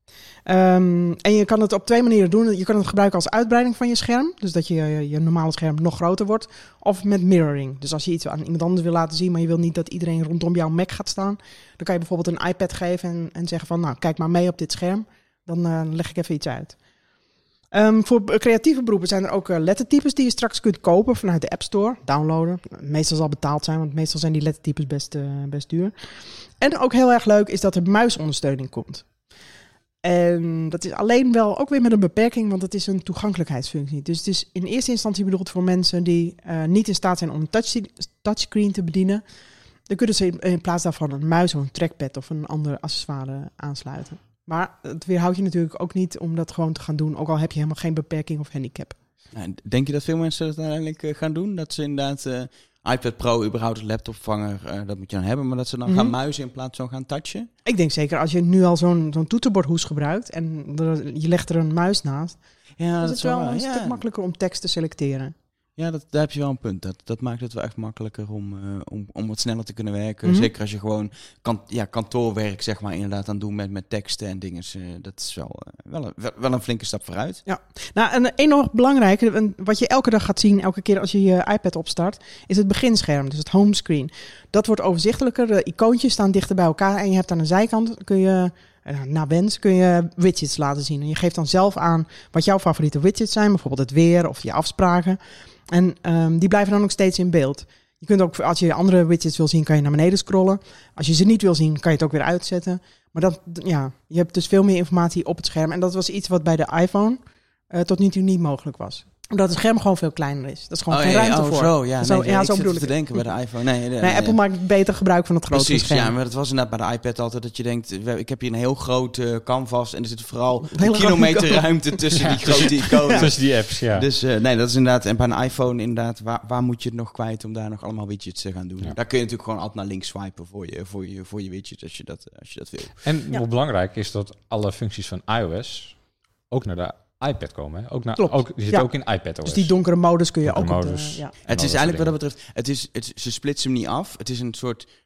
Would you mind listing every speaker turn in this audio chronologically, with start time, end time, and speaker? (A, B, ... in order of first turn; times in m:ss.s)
0:00.4-0:16.8 A
0:17.7-0:25.9 A
0:26.6-0:29.0 A
0:30.0-0:39.2 A
0:39.9-0:49.0 A
0:49.3-0:57.5 B
0:55.8-0:56.1 A
0:57.6-1:02.4 A
1:02.8-1:04.0 B
1:03.0-1:05.3 A
1:05.8-1:17.4 B
1:17.4-1:35.2 A
1:35.7-1:47.2 A
1:47.7-1:52.9 A
1:50.9-1:54.4 B
1:54.0-1:56.1 A
1:55.5-2:13.0 B
2:00.7-2:03.2 A
2:02.2-2:04.0 C
2:13.0-2:16.0 C
2:16.5-2:19.7 C
2:18.2-2:21.3 A
2:20.4-2:22.1 C
2:21.4-2:24.9 B